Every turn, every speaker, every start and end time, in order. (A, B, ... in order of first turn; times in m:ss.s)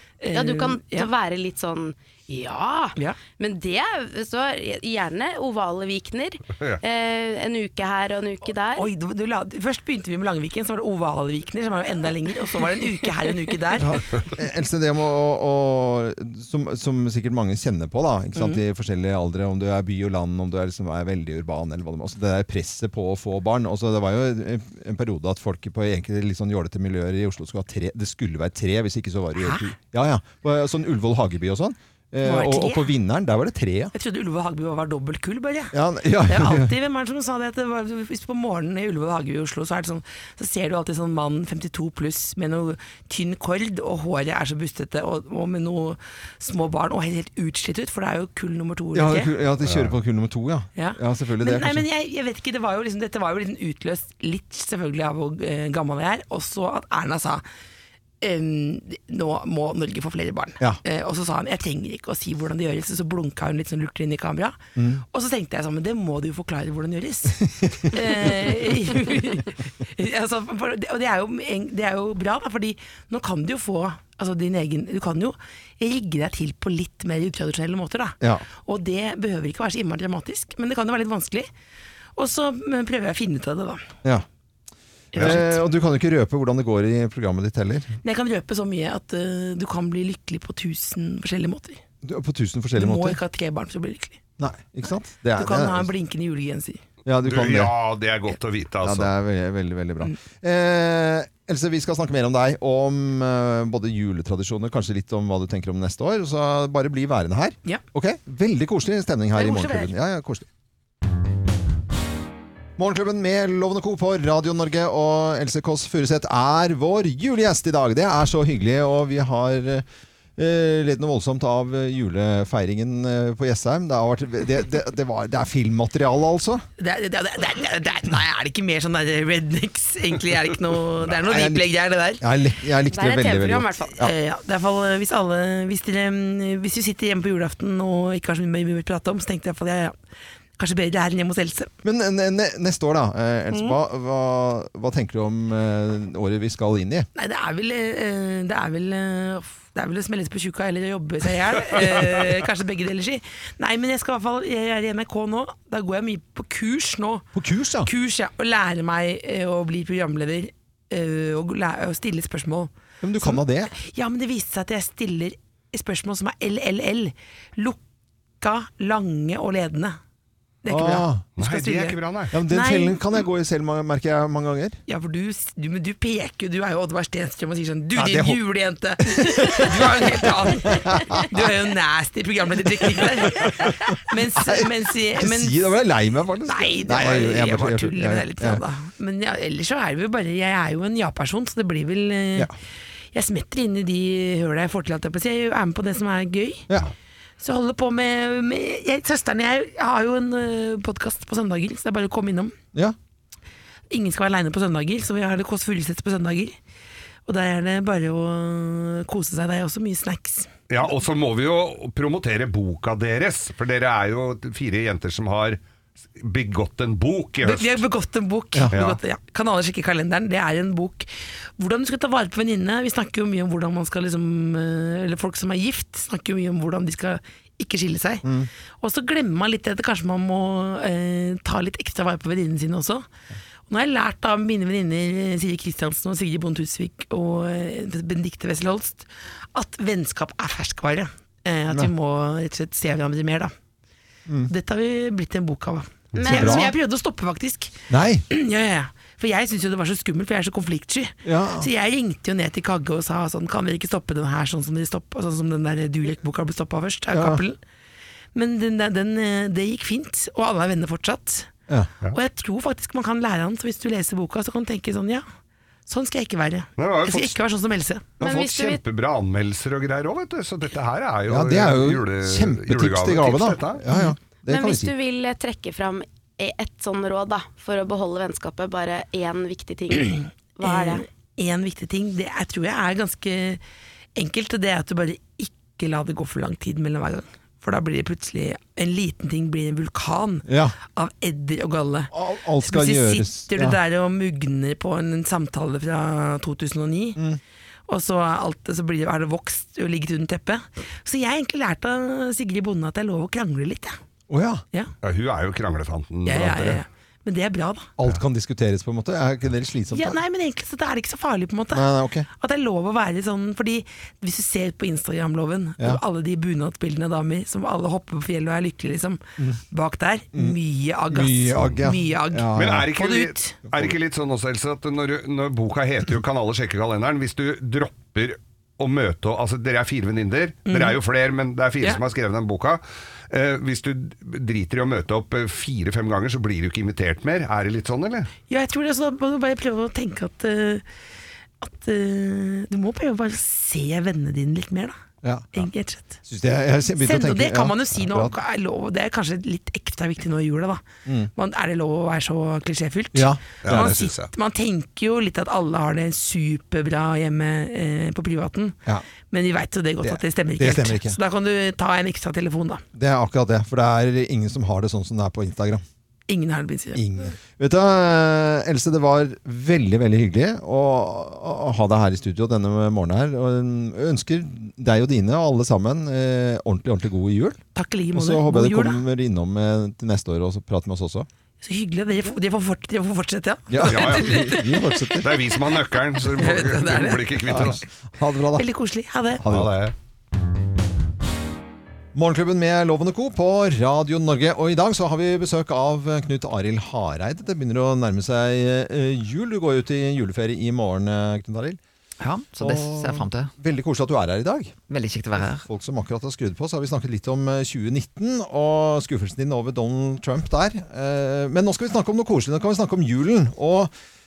0:00.2-0:01.1 A
0:00.3-0:08.9 B
0:08.8-0:14.0 A
0:13.8-0:33.9 C
0:18.3-0:18.6 A
0:29.4-0:29.7 A
0:32.2-0:32.9 A
0:33.9-0:35.7 A
0:35.7-0:36.7 C
0:36.2-0:49.3 A
0:48.9-0:51.8 C
0:49.6-0:49.9 D
0:50.7-0:57.4 A
0:58.2-1:21.5 A
1:04.8-1:05.0 C
1:22.2-1:23.8 A
1:25.1-1:25.6 A
1:25.1-1:27.9 C
1:28.0-1:31.8 A
1:32.0-1:33.2 C
1:32.7-1:34.2 A
1:34.4-1:35.9 C
1:35.3-1:36.8 A
1:37.0-1:37.7 C
1:37.2-1:39.1 D
1:38.8-1:50.4 C
1:49.3-1:49.9 A
1:52.8-1:59.8 C
2:00.4-2:06.6 C
2:06.8-2:12.2 A
2:11.2-2:11.7 C
2:12.2-2:14.1 C
2:12.9-2:14.0 B
2:14.0-2:19.9 A
2:20.6-2:21.7 A
2:21.8-2:27.1 C
2:23.5-2:23.8 A
2:27.1-2:37.2 A
2:37.3-2:37.9 C
2:37.8-2:47.8 A
2:43.0-2:43.7 C
2:48.4-2:50.0 A
2:50.6-2:53.2 A
2:50.7-2:51.2 C
2:51.4-2:52.3 D
2:52.3-2:54.8 C
2:54.9-3:05.8 A
2:58.0-2:58.4 C
2:59.1-3:01.4 C
3:03.0-3:03.5 C
3:04.4-3:08.6 C
3:06.4-3:12.5 A
3:13.1-3:16.6 A
3:17.4-3:22.5 A
3:23.9-3:26.6 A
3:27.3-3:30.5 A
3:30.7-3:35.6 D
3:36.2-3:37.8 D
3:37.4-3:48.2 A
3:38.7-3:39.0 D
3:48.2-3:48.5 C
3:48.8-3:53.0 A
3:53.7-4:03.5 A
4:04.5-4:07.8 A
4:06.2-4:06.7 B
4:06.2-4:06.7 C
4:07.9-4:08.2 C
4:08.3-4:17.6 A
4:11.2-4:11.7 C
4:17.1-4:17.4 C
4:18.3-4:21.5 A
4:22.1-4:25.2 A
4:25.9-4:28.2 A
4:26.8-4:27.4 D
4:28.2-4:28.8 B
4:28.2-4:33.8 D
4:31.3-4:34.9 C
4:34.5-4:41.0 B
4:40.0-4:43.6 A
4:44.2-4:57.2 A
4:50.4-4:50.8 C
4:52.1-4:53.8 C
4:57.9-5:04.0 A
5:04.3-5:04.6 C
5:05.0-5:06.8 D
5:06.2-5:07.9 A
5:08.0-5:10.2 C
5:09.9-5:23.6 A
5:11.7-5:12.3 C
5:21.1-5:22.9 C
5:22.5-5:38.3 D
5:30.6-5:31.0 A
5:38.5-5:40.8 A
5:41.6-5:45.0 A
5:45.2-5:45.6 C
5:45.5-5:46.2 A
5:46.2-5:48.3 C
5:47.0-5:50.8 A
5:51.0-5:51.3 C
5:51.3-6:02.8 A
5:53.1-5:54.0 C
5:53.6-5:54.3 D
6:00.0-6:01.2 C
6:02.9-6:05.8 C
6:06.3-6:07.0 A
6:06.9-6:17.6 C
6:17.7-6:19.0 A
6:18.1-6:21.3 C
6:21.6-6:25.1 A
6:23.7-6:25.3 C
6:23.8-6:24.5 D
6:25.2-6:27.8 D
6:26.2-6:27.6 A
6:27.5-6:28.6 C
6:28.5-6:29.4 A
6:29.4-6:29.7 C
6:29.4-6:29.9 D
6:32.1-6:41.8 C
6:42.2-6:43.5 E
6:42.6-6:44.7 C
6:44.9-6:45.7 E
6:45.4-6:53.9 C